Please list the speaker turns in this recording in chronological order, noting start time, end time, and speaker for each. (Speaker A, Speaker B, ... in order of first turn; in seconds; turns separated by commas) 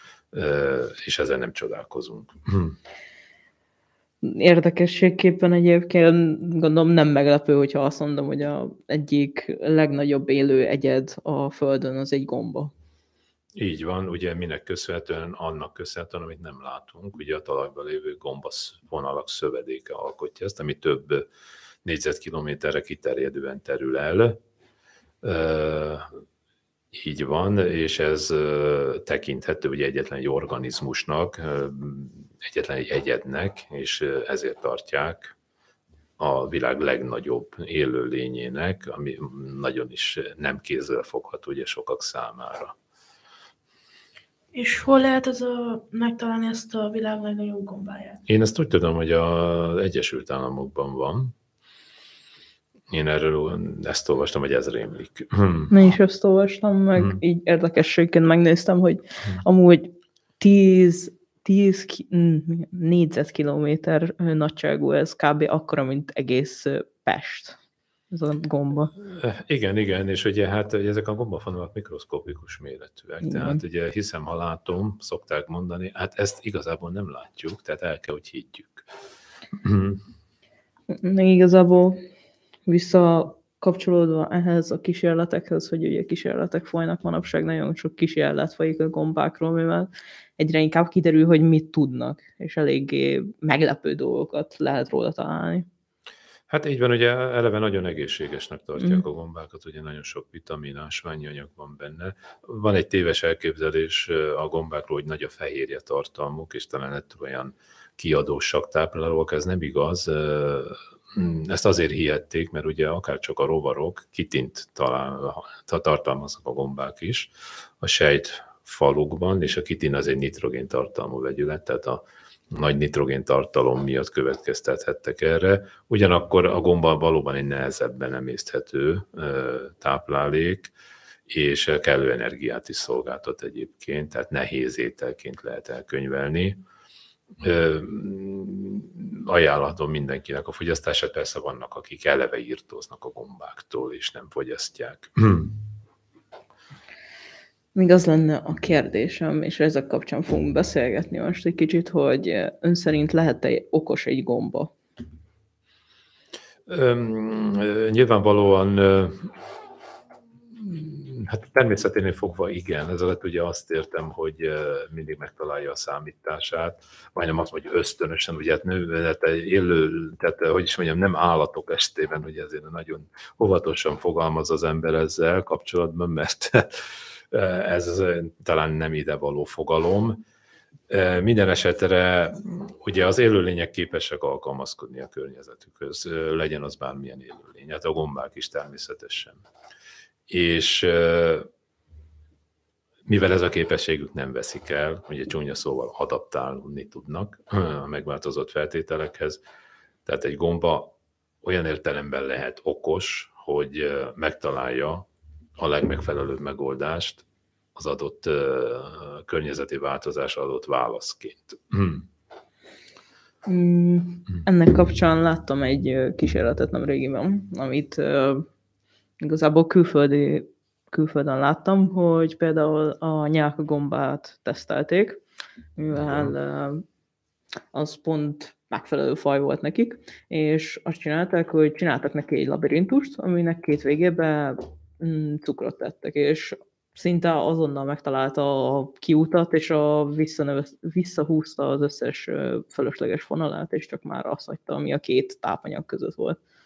Speaker A: 0.3-2.8, Speaker B: 4.2-12.7, Speaker A: 13.5-21.3, Speaker A: 21.8-24.4, Speaker A: 25.2-26.1, Speaker A: 26.9-35.4, Speaker A: 36.2-42.8, Speaker C: 44.5-48.2, Speaker A: 48.3-51.4, Speaker A: 52.9-55.7, Speaker B: 55.7-67.6, Speaker B: 68.1-68.9, Speaker A: 69.0-78.9, Speaker B: 73.2-73.6, Speaker A: 79.5-80.0, Speaker B: 80.9-82.0, Speaker B: 82.7-95.7, Speaker A: 96.5-130.7, Speaker A: 131.3-136.6, Speaker A: 137.4-145.6, Speaker B: 147.8-154.7, Speaker A: 156.7-159.4, Speaker A: 160.5-180.2, Speaker A: 180.9-189.4, Speaker A: 190.3-191.5, Speaker A: 193.1-199.4, Speaker A: 200.1-205.1, Speaker A: 205.6-207.2, Speaker A: 207.8-212.1, Speaker B: 213.5-218.5, Speaker B: 219.2-225.2, Speaker B: 225.8-226.8, Speaker A: 225.9-226.3, Speaker B: 227.7-246.4